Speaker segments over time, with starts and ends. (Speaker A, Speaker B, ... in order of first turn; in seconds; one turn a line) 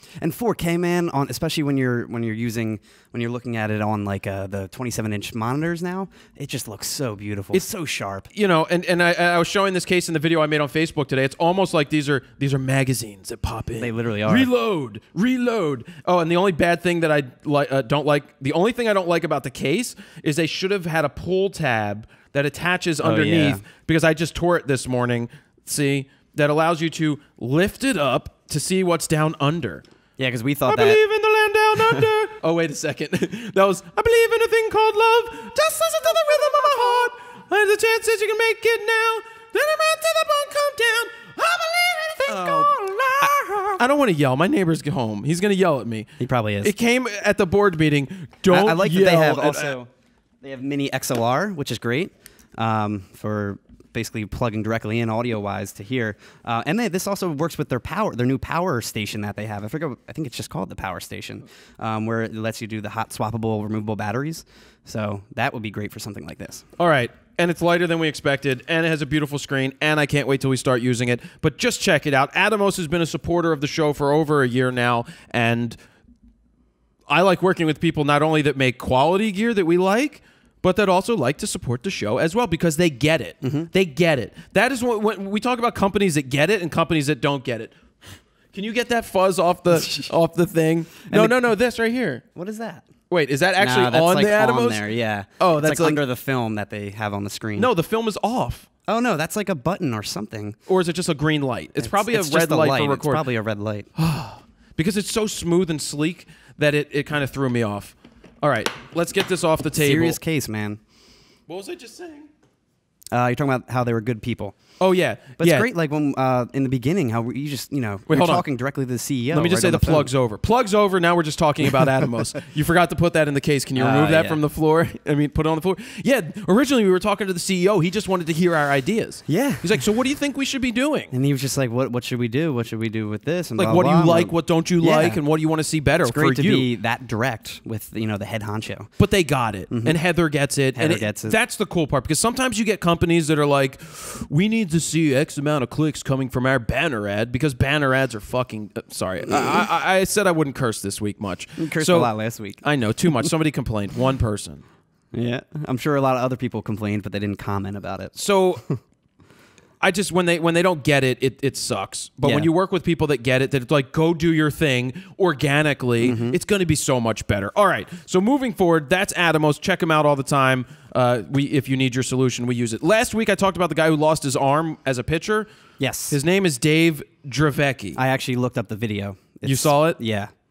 Speaker A: 0.2-8.3
Speaker B: 8.3-29.8
Speaker A: 13.8-14.5
Speaker A: 23.0-23.6
Speaker A: 30.2-31.0
Speaker B: 30.7-46.1
Speaker A: 31.8-32.0
Speaker A: 35.7-36.9
Speaker A: 42.2-43.8
Speaker A: 46.2-46.7
Speaker B: 46.6-49.8
Speaker A: 48.5-49.9
Speaker A: 50.4-66.7
Speaker B: 66.8-75.8
Speaker B: 77.1-87.8
Speaker A: 83.4-83.7
Speaker B: 88.5-92.2
Speaker A: 91.1-91.4
Speaker A: 92.3-92.9
Speaker B: 93.1-94.8
Speaker A: 93.6-97.7
Speaker B: 95.4-96.0
Speaker B: 97.5-98.7
Speaker A: 98.9-100.6
Speaker B: 100.7-103.2
Speaker A: 101.8-103.9
Speaker B: 104.0-110.2
Speaker A: 109.7-110.8
Speaker B: 111.5-112.3
Speaker A: 113.1-114.5
Speaker B: 114.8-115.7
Speaker A: 115.4-120.1
Speaker B: 118.1-118.5
Speaker B: 119.3-131.1
Speaker A: 123.8-124.4
Speaker A: 129.3-129.9
Speaker A: 131.1-135.2
Speaker B: 133.6-136.7
Speaker A: 136.0-138.9
Speaker B: 139.0-154.6
Speaker A: 139.7-140.0
Speaker A: 140.7-141.4
Speaker A: 151.6-152.6
Speaker A: 155.1-158.1
Speaker B: 158.1-158.6
Speaker B: 159.8-175.5
Speaker A: 162.2-162.5
Speaker A: 166.0-166.4
Speaker A: 175.8-176.2
Speaker B: 176.1-178.0
Speaker A: 178.0-180.3
Speaker B: 179.4-180.0